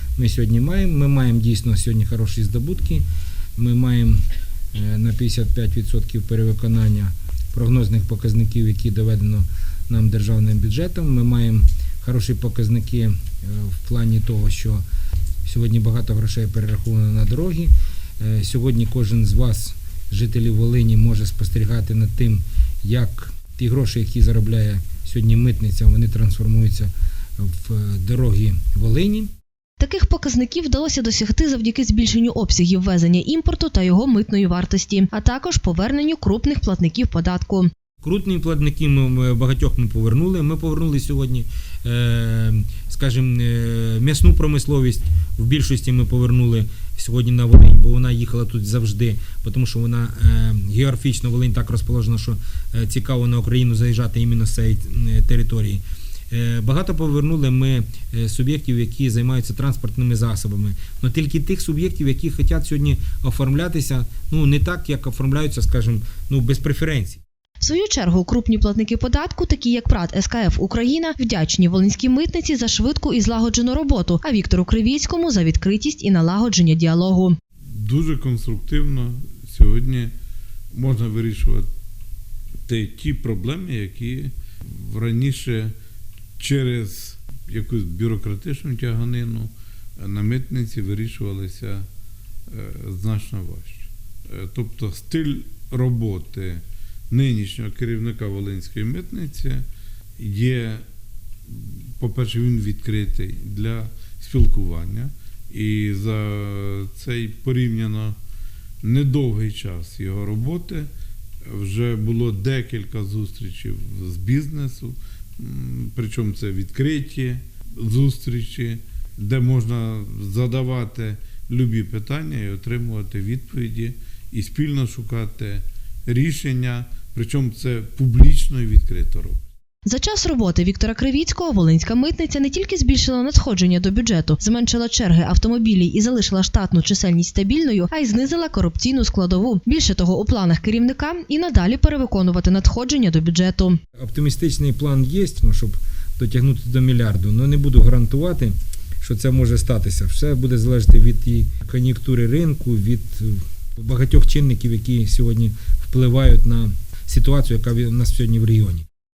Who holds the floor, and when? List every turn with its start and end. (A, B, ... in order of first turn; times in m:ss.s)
0:00.2-0:03.0 A
0:03.6-0:14.8 A
0:15.4-0:29.3 A
0:29.8-0:37.7 B
0:38.0-1:07.2 A
1:07.6-1:17.4 B
1:17.7-1:20.1 C
1:20.7-1:21.7 C
1:22.6-1:25.7 C
1:26.4-1:31.9 C
1:32.5-1:39.6 C
1:40.2-1:40.8 C
1:41.5-1:48.2 C
1:48.8-1:50.9 C
1:51.4-2:09.4 C
2:09.8-2:23.8 B
2:24.0-2:38.8 A